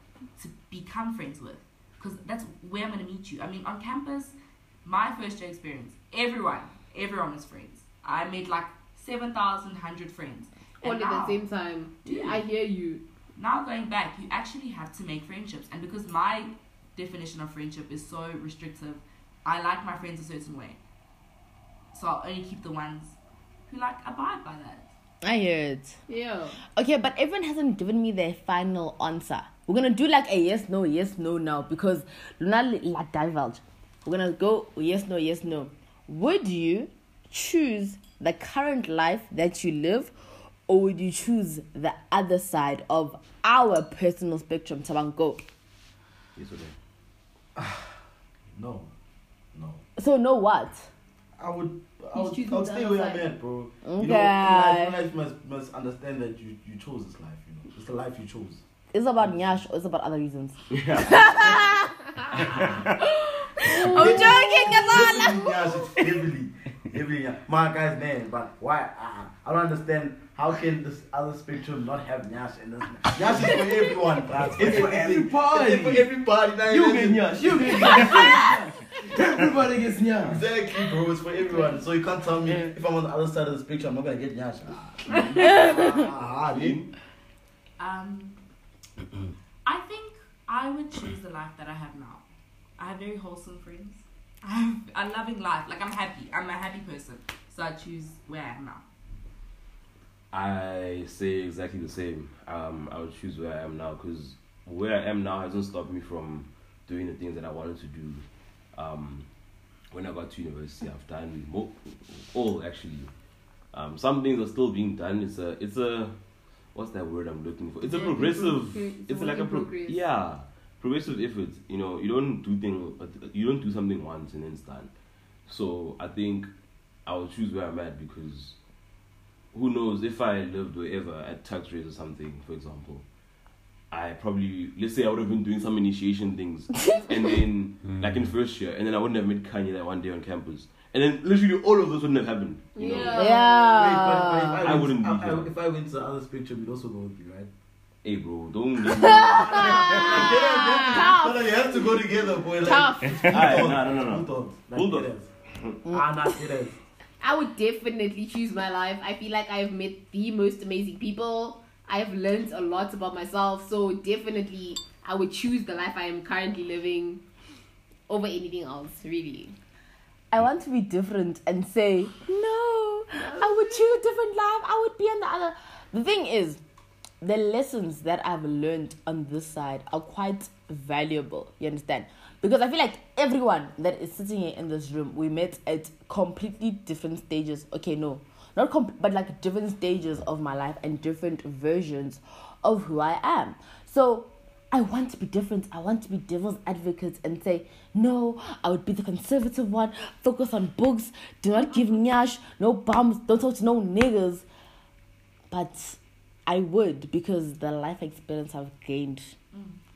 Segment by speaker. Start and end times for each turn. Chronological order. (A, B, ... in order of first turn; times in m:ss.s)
0:00.4-0:11.4 A
0:10.8-0:13.0 B
0:12.0-0:12.4 A
0:13.4-0:20.8 A
0:21.9-0:23.2 A
0:23.7-0:24.9 A
0:25.2-0:26.0 C
0:26.1-0:26.6 B
0:26.6-0:40.1 C
0:40.7-0:45.4 C
0:46.4-0:46.7 D
0:47.5-0:48.0 E
0:48.6-0:48.9 E
0:49.5-0:49.8 E
0:50.0-0:50.9 C
0:51.4-0:58.6 E
0:52.1-0:53.3 B
0:53.8-0:55.0 C
0:58.9-1:02.8 C
0:59.2-0:59.6 E
1:00.7-1:01.6 D
1:03.4-1:05.7 C
1:03.7-1:18.4 E
1:04.0-1:04.3 B
1:14.5-1:16.1 D
1:16.6-1:20.4 D
1:20.2-1:26.8 E
1:25.2-1:26.9 D
1:27.8-1:28.4 A
1:29.6-1:32.2 A
1:32.8-1:38.8 A
1:40.3-1:48.2 D
1:48.7-1:49.3 D
1:49.9-1:53.1 D
1:53.7-1:56.2 D
1:56.7-2:04.9 D
1:57.8-2:00.0 B
2:05.5-2:06.5 D
2:07.0-2:08.6 D
2:09.5-2:13.0 D
2:13.9-2:23.4 D
2:22.7-2:23.8 B
2:23.2-2:24.6 C
2:23.7-2:27.5 E
2:24.6-2:25.5 D
2:28.0-2:30.2 D
2:29.0-2:30.2 C
2:29.0-2:35.3 E
2:29.5-2:33.3 B
2:33.2-2:35.8 D
2:35.8-2:36.1 C
2:35.9-2:36.8 E
2:37.2-2:47.2 B
2:48.1-2:49.5 B
2:50.3-2:56.6 C
2:53.2-2:53.9 B
2:57.2-3:24.4 C
3:25.5-3:29.4 C